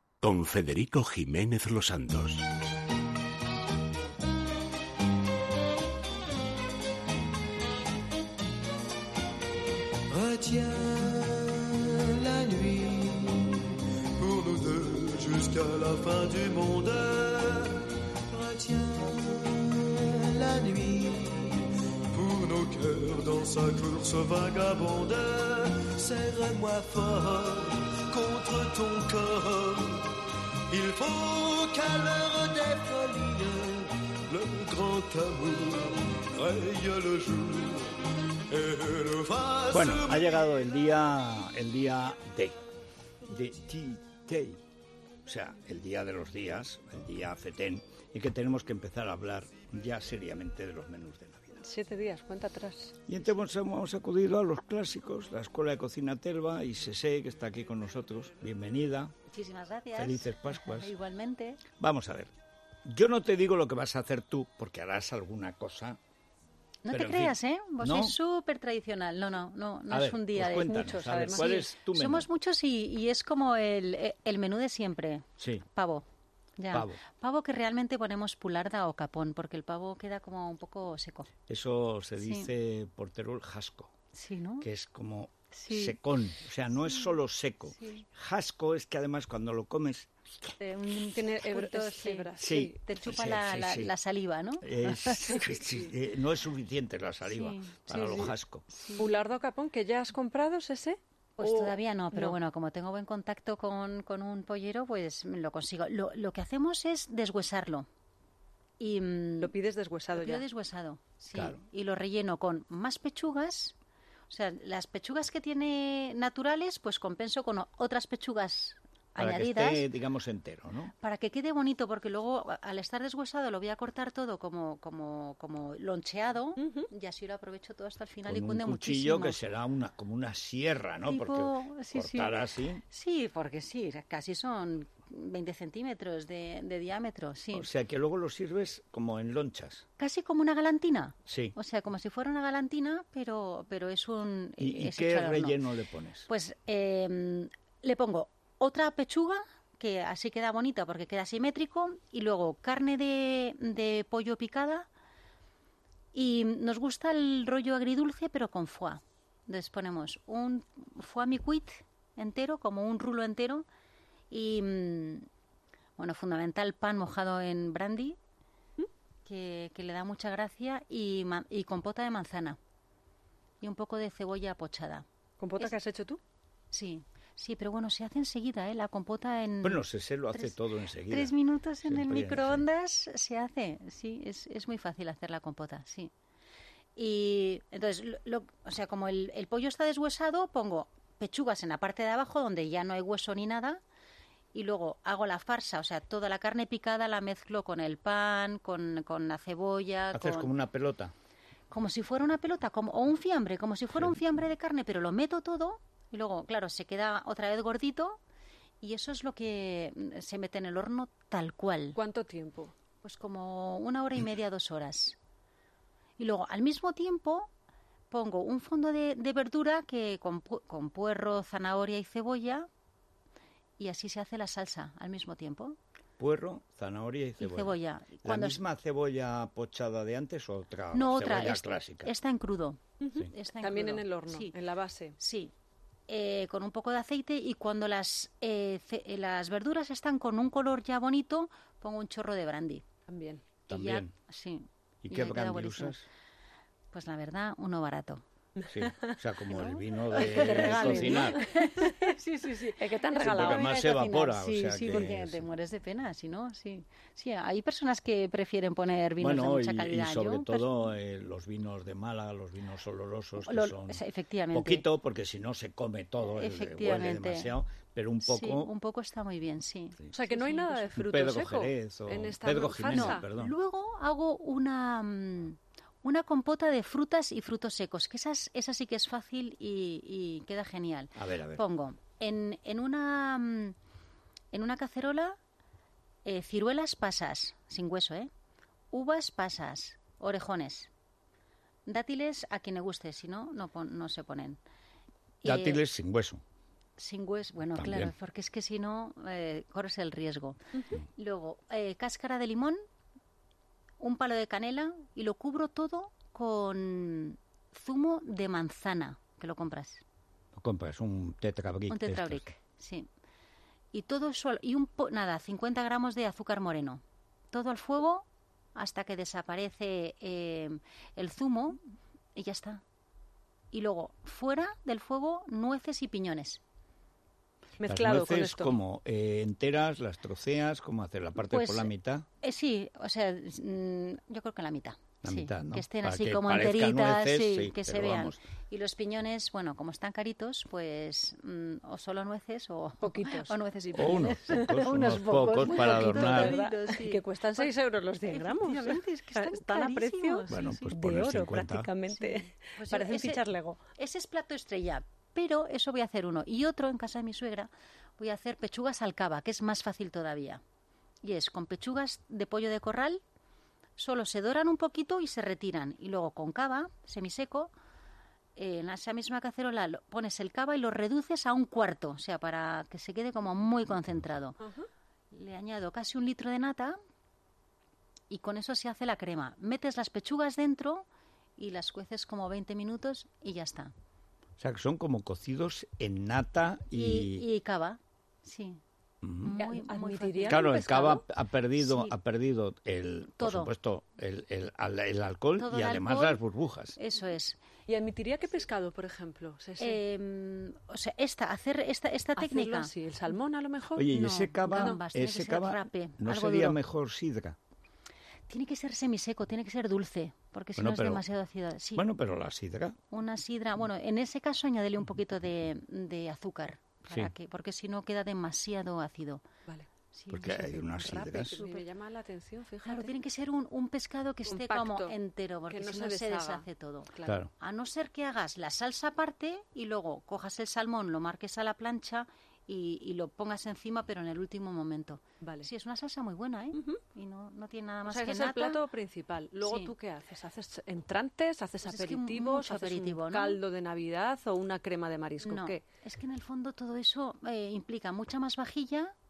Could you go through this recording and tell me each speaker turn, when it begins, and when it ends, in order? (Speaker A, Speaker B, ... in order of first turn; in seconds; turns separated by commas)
Speaker A: 0.3-2.4, Speaker B: 10.1-40.4, Speaker C: 39.7-42.6, Speaker C: 43.3-44.6, Speaker C: 45.2-51.6, Speaker D: 51.6-52.9, Speaker C: 53.1-59.1, Speaker E: 59.3-61.6, Speaker C: 60.0-60.9, Speaker C: 61.7-62.3, Speaker C: 62.9-66.0, Speaker E: 66.8-70.8, Speaker C: 66.9-68.2, Speaker C: 69.9-72.3, Speaker D: 70.6-71.7, Speaker E: 71.3-76.1, Speaker C: 75.4-75.7, Speaker E: 76.6-81.3, Speaker C: 76.7-77.0, Speaker C: 81.5-83.9, Speaker E: 82.2-82.5, Speaker E: 84.1-84.7, Speaker C: 84.6-90.1, Speaker E: 90.6-95.0, Speaker D: 91.0-92.8, Speaker C: 92.4-94.0, Speaker C: 94.6-98.7, Speaker D: 95.4-95.7, Speaker E: 97.2-97.8, Speaker D: 97.9-98.3, Speaker E: 98.7-99.1, Speaker D: 99.0-102.4, Speaker E: 101.4-107.9, Speaker E: 108.8-109.5, Speaker D: 109.4-110.5, Speaker E: 110.2-113.8, Speaker C: 111.3-111.6, Speaker E: 114.3-119.9, Speaker C: 119.2-120.9, Speaker E: 121.0-129.4, Speaker D: 126.6-126.9, Speaker C: 128.3-132.8, Speaker E: 131.1-137.7, Speaker C: 137.5-139.8, Speaker E: 140.0-145.6, Speaker C: 141.3-141.6, Speaker C: 144.6-146.3, Speaker E: 146.3-154.9, Speaker E: 156.1-163.7, Speaker E: 164.3-165.3, Speaker E: 166.0-168.2, Speaker E: 169.2-172.6, Speaker E: 173.6-175.1, Speaker D: 175.4-176.2, Speaker E: 176.7-180.6, Speaker C: 179.6-182.7, Speaker E: 181.1-186.1, Speaker E: 187.0-193.8, Speaker E: 194.5-200.5, Speaker C: 200.1-201.1, Speaker E: 201.7-208.2, Speaker E: 208.8-212.0, Speaker D: 211.9-212.7, Speaker E: 213.0-215.2, Speaker E: 216.2-217.5, Speaker E: 218.1-222.7, Speaker E: 223.8-225.8, Speaker C: 226.2-232.1, Speaker E: 227.4-228.6, Speaker E: 230.9-234.6, Speaker D: 233.0-235.2, Speaker E: 235.2-235.5, Speaker E: 236.1-242.8, Speaker D: 243.1-243.4, Speaker C: 243.7-244.1, Speaker E: 243.7-246.0, Speaker C: 245.0-246.1, Speaker E: 246.9-248.2, Speaker C: 248.7-251.5, Speaker E: 249.5-260.7, Speaker D: 250.1-252.1, Speaker D: 252.7-253.8, Speaker C: 253.2-255.5, Speaker C: 259.2-268.7, Speaker E: 263.4-264.9, Speaker E: 266.3-267.5, Speaker E: 268.2-270.9, Speaker D: 270.1-273.3, Speaker C: 270.9-273.6, Speaker E: 272.9-283.8, Speaker C: 281.2-281.6, Speaker E: 284.5-285.4, Speaker E: 286.2-288.3, Speaker E: 288.9-290.9, Speaker E: 291.9-294.6, Speaker E: 295.4-295.8, Speaker C: 295.4-296.4, Speaker E: 297.0-302.8, Speaker C: 297.8-298.1, Speaker E: 304.0-310.0, Speaker C: 310.6-312.5, Speaker E: 311.9-313.1, Speaker E: 313.9-321.8, Speaker E: 322.4-322.8, Speaker E: 323.7-326.6, Speaker D: 327.8-328.8, Speaker C: 327.9-332.3, Speaker E: 331.4-331.9, Speaker E: 332.4-347.7, Speaker C: 335.2-338.4, Speaker D: 343.0-344.8, Speaker C: 343.9-346.6, Speaker D: 345.6-353.8, Speaker E: 348.3-350.9, Speaker C: 350.5-351.9, Speaker E: 352.2-353.4, Speaker E: 354.0-360.6, Speaker E: 361.2-363.2, Speaker E: 364.0-367.7, Speaker E: 368.6-374.6, Speaker D: 374.6-374.9, Speaker E: 375.3-377.0, Speaker E: 378.3-381.1, Speaker E: 381.6-383.9, Speaker C: 384.6-387.5, Speaker E: 386.9-388.8, Speaker C: 389.2-389.6, Speaker E: 389.4-390.7, Speaker D: 389.6-391.2, Speaker C: 390.4-397.0, Speaker E: 391.8-392.1, Speaker E: 393.4-393.7, Speaker E: 395.6-396.4, Speaker E: 397.0-397.6, Speaker D: 397.9-400.0, Speaker E: 399.8-402.9, Speaker D: 402.4-405.0, Speaker C: 404.0-407.6, Speaker E: 404.4-406.8, Speaker E: 408.5-412.1, Speaker C: 410.8-411.2, Speaker C: 412.0-413.0, Speaker E: 413.1-419.4, Speaker E: 420.1-420.8, Speaker C: 420.3-421.6, Speaker D: 420.8-423.2, Speaker E: 421.5-421.8, Speaker E: 422.9-438.8, Speaker D: 424.5-425.2, Speaker D: 425.7-427.4, Speaker C: 427.2-427.5, Speaker D: 435.4-435.7, Speaker D: 436.7-437.0, Speaker D: 438.1-445.8, Speaker E: 439.6-439.9, Speaker E: 441.9-443.6, Speaker E: 445.4-449.1